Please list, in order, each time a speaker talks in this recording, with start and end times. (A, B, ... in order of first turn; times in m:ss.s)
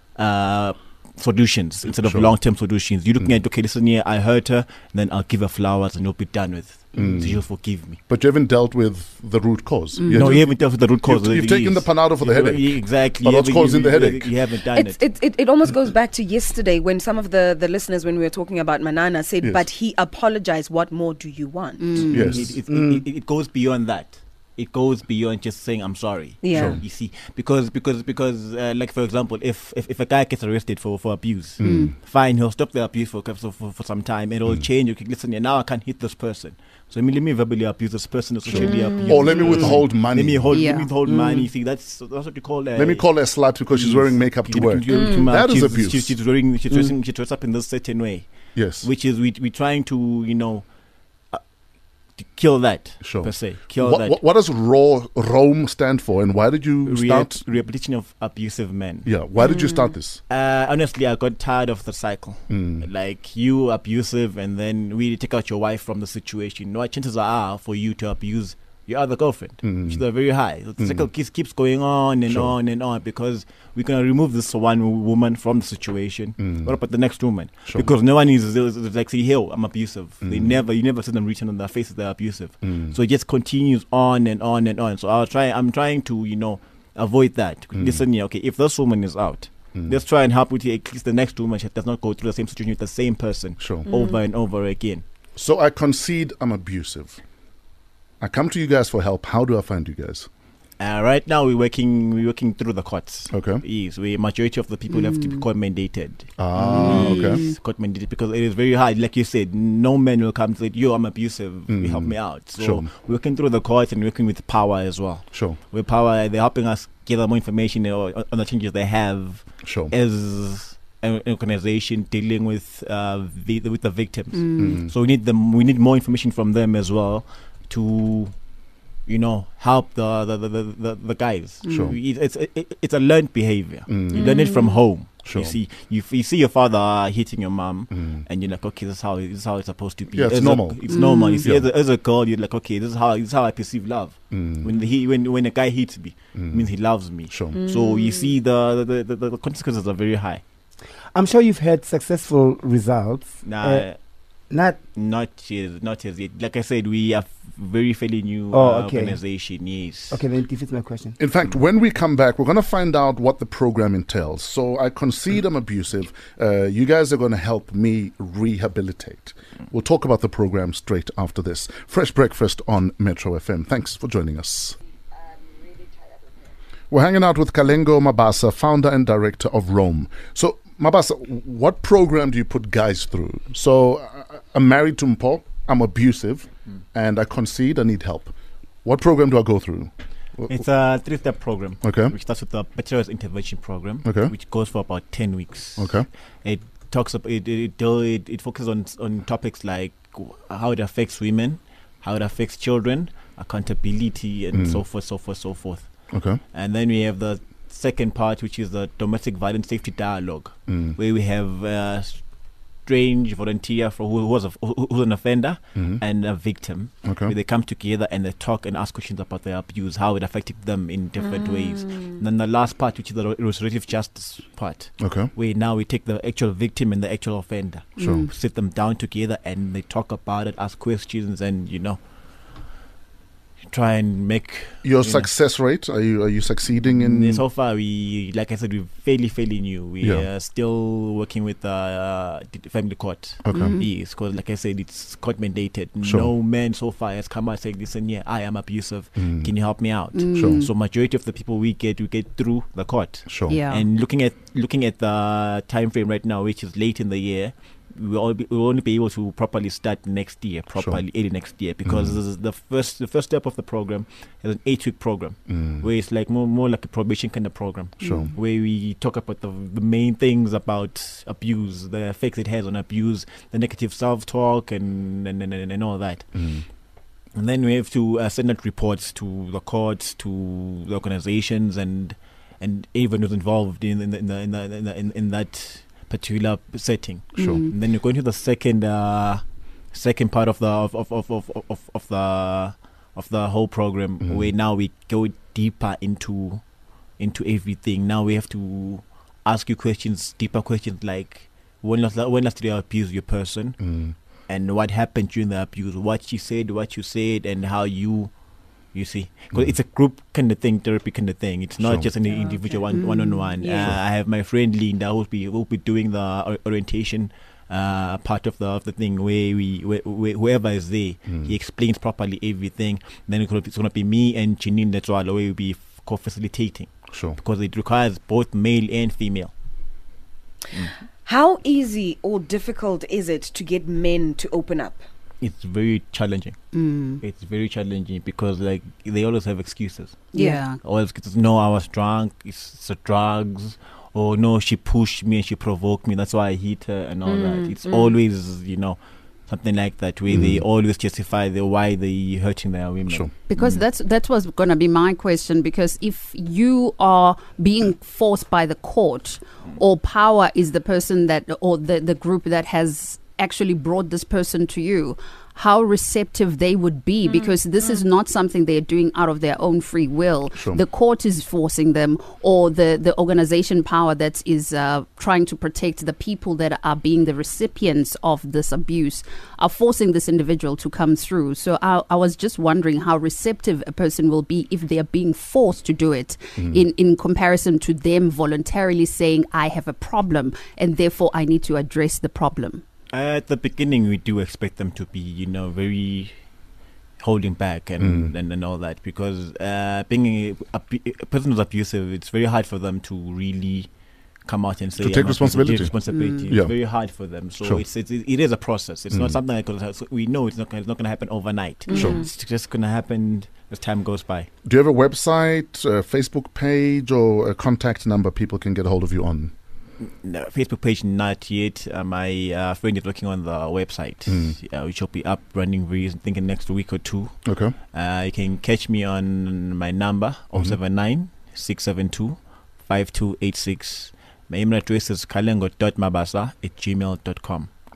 0:00.2-0:08.0 A
0:02.0-0:02.3 B
0:07.0-0:07.4 B
0:08.1-0:10.4 B
0:10.0-0:10.4 C
0:10.1-0:15.0 A
0:11.0-0:14.3 B
0:14.6-0:22.1 D
0:21.8-0:22.2 C
0:22.1-0:43.2 A
0:22.1-0:22.6 B
0:22.7-0:23.0 E
0:26.4-0:26.8 D
0:26.5-0:26.8 B
0:31.6-0:31.9 B
0:31.6-0:31.9 C
0:38.5-0:40.6 B
0:38.5-0:39.7 D
0:40.5-0:40.9 C
0:41.0-0:41.3 E
0:42.8-0:46.2 B
0:43.7-0:48.3 A
0:44.9-0:45.3 D
0:48.5-0:48.9 B
0:48.8-0:50.6 A
0:52.2-0:54.2 A
0:53.0-0:57.4 B
0:56.8-0:59.1 A
0:59.0-1:00.2 B
0:59.4-0:59.7 D
1:00.3-1:35.0 A
1:02.5-1:02.8 B
1:09.6-1:10.0 B
1:10.8-1:11.1 B
1:12.3-1:12.5 B
1:16.4-1:16.7 B
1:20.2-1:20.6 B
1:22.7-1:23.0 B
1:27.7-1:28.0 B
1:33.6-1:33.9 B
1:33.8-1:34.2 D
1:35.4-1:37.2 B
1:38.2-1:40.3 B
1:40.8-2:08.3 A
1:43.3-1:43.6 B
1:44.9-1:45.3 C
1:46.4-1:47.5 B
1:46.7-1:47.5 C
1:51.7-1:52.9 B
1:59.6-1:59.9 B
2:04.3-2:04.8 C
2:04.6-2:04.9 B
2:09.0-2:30.4 A
2:11.7-2:11.9 B
2:13.9-2:14.4 B
2:14.1-2:14.8 D
2:15.2-2:15.6 B
2:17.9-2:18.2 B
2:20.1-2:20.9 B
2:20.9-2:21.4 C
2:24.3-2:24.7 B
2:26.4-2:26.7 B
2:27.3-2:27.6 B
2:27.5-2:28.3 D
2:31.1-2:33.9 E
2:33.4-2:34.0 A
2:34.5-2:34.8 E
2:34.9-2:40.2 A
2:38.5-2:39.2 E
2:40.1-2:41.2 E
2:41.2-2:54.8 B
2:55.6-2:56.1 D
2:56.9-3:10.5 B
3:10.5-3:25.9 A
3:11.8-3:12.1 B
3:14.0-3:14.3 B
3:15.8-3:16.1 B
3:24.5-3:24.8 B
3:26.1-3:26.4 B
3:26.5-3:32.2 A
3:30.7-3:31.0 B
3:32.8-3:52.0 A
3:35.8-3:36.0 B
3:37.0-3:37.3 B
3:45.0-3:45.3 B
3:48.0-3:48.3 C
3:48.0-3:48.3 B
3:53.7-3:55.3 A
3:54.8-3:57.4 B
3:56.9-4:36.4 A
4:03.4-4:03.8 B
4:03.5-4:03.9 C
4:06.0-4:06.3 B
4:09.2-4:09.5 B
4:10.1-4:10.7 C
4:10.3-4:10.6 B
4:13.3-4:13.6 B
4:13.5-4:13.8 C
4:20.7-4:21.0 B
4:21.8-4:22.2 B
4:25.6-4:25.8 B
4:28.0-4:28.3 B
4:36.4-4:36.6 B
4:37.3-4:56.6 A
4:47.4-4:47.6 B
4:47.4-4:47.7 C
4:57.2-5:03.8 A
5:03.8-5:04.1 B
5:04.5-5:08.3 A
5:08.9-5:29.5 A
5:11.8-5:12.1 B
5:12.3-5:13.9 D
5:13.0-5:13.5 C
5:27.1-5:27.4 B
5:31.2-5:35.0 D
5:35.4-5:36.6 A
5:36.7-5:37.2 C
5:37.2-5:40.3 A
5:40.3-5:40.6 D
5:40.3-5:40.8 C
5:40.8-5:53.8 A
5:47.2-5:48.2 D
5:50.3-5:50.6 B
5:53.5-6:32.8 C
6:33.1-6:36.3 A
6:37.2-6:43.9 A
6:38.0-6:38.3 B
6:44.4-6:54.5 A
6:45.0-6:45.9 B
6:46.1-6:46.4 C
6:46.5-6:46.7 B
6:49.1-6:49.4 B
6:54.6-6:59.5 B
7:00.0-7:07.4 A
7:04.3-7:04.5 B
7:07.4-7:07.7 B
7:07.9-7:17.7 A